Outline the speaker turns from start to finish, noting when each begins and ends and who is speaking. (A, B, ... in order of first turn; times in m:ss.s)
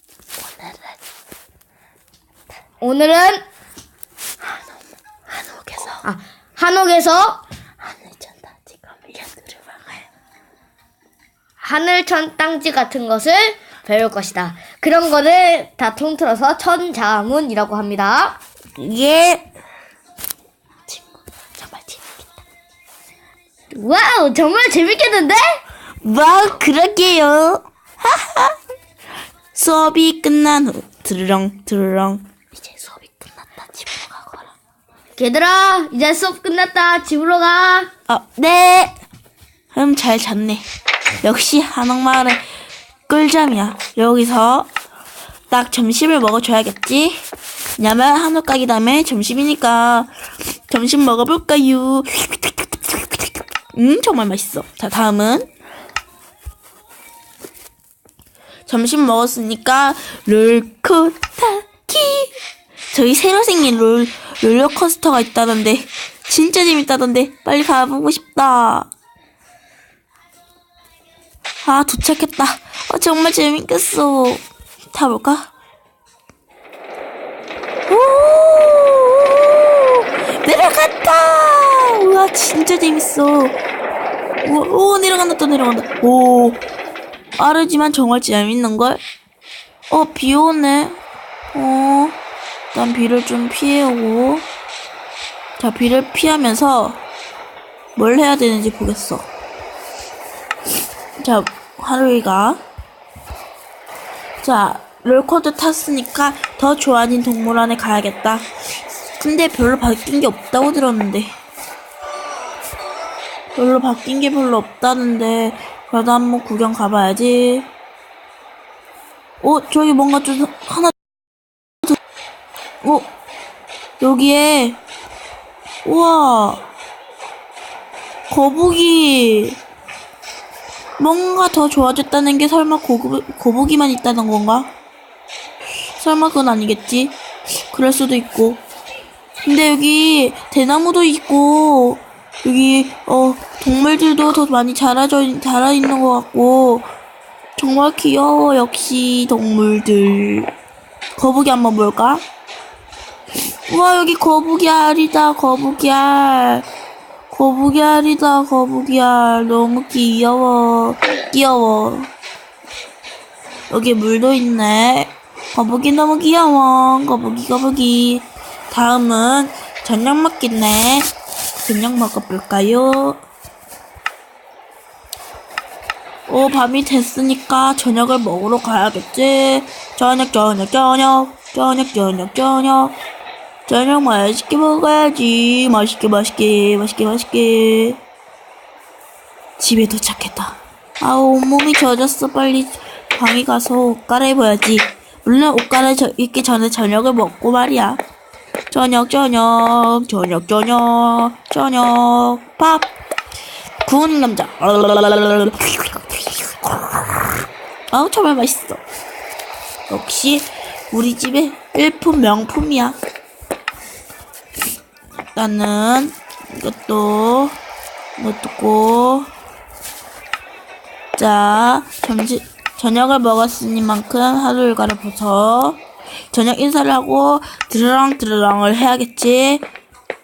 0:00.5-0:00.8 A
0:02.8-0:03.4 B
0:05.3-0:06.0 A
0:06.0-0:07.4 B
0:07.9-0:10.0 A
0:11.6-0:18.4 B
0:18.8-0:19.5 A
0:20.9-0:22.4 A
0:23.7-0:25.6 B
0:26.0-0:28.6 A
0:29.5-0:34.6 A
0:35.2-0:37.9 B
0:38.1-0:39.0 A
0:39.7-0:40.6 A
0:41.2-0:42.4 A
0:43.1-0:44.7 A
0:45.5-0:47.2 A
0:47.8-0:50.1 A
0:50.7-0:55.5 A
0:58.7-1:02.4 A
1:02.9-1:08.9 A
1:11.6-1:14.4 A
1:14.9-1:15.5 A
1:17.9-1:23.6 A
1:24.4-1:26.6 A
1:27.4-1:29.0 A
1:29.9-1:31.0 A
1:31.5-1:32.2 A
1:32.7-1:34.5 A
1:35.6-1:37.0 A
1:38.0-1:39.3 A
1:41.2-1:42.6 A
1:44.4-1:48.5 A
1:49.2-1:51.3 A
1:53.6-1:57.7 A
1:59.4-2:00.9 A
2:02.8-2:03.1 A
2:04.0-2:04.8 A
2:05.8-2:06.7 A
2:08.3-2:09.6 A
2:11.0-2:14.7 A
2:16.0-2:17.2 A
2:17.7-2:18.6 A
2:19.4-2:26.9 A
2:27.6-2:30.5 A
2:31.2-2:32.2 A
2:33.7-2:36.7 A
2:37.3-2:42.1 A
2:43.7-2:51.1 A
2:51.6-2:53.2 A
2:56.3-3:03.0 A
3:03.7-3:08.0 A
3:09.6-3:18.0 A
3:18.7-3:22.9 A
3:23.8-3:27.0 A
3:27.9-3:28.8 A
3:29.9-3:33.0 A
3:35.4-3:37.6 A
3:38.2-3:39.3 A
3:41.2-3:45.8 A
3:46.3-3:49.6 A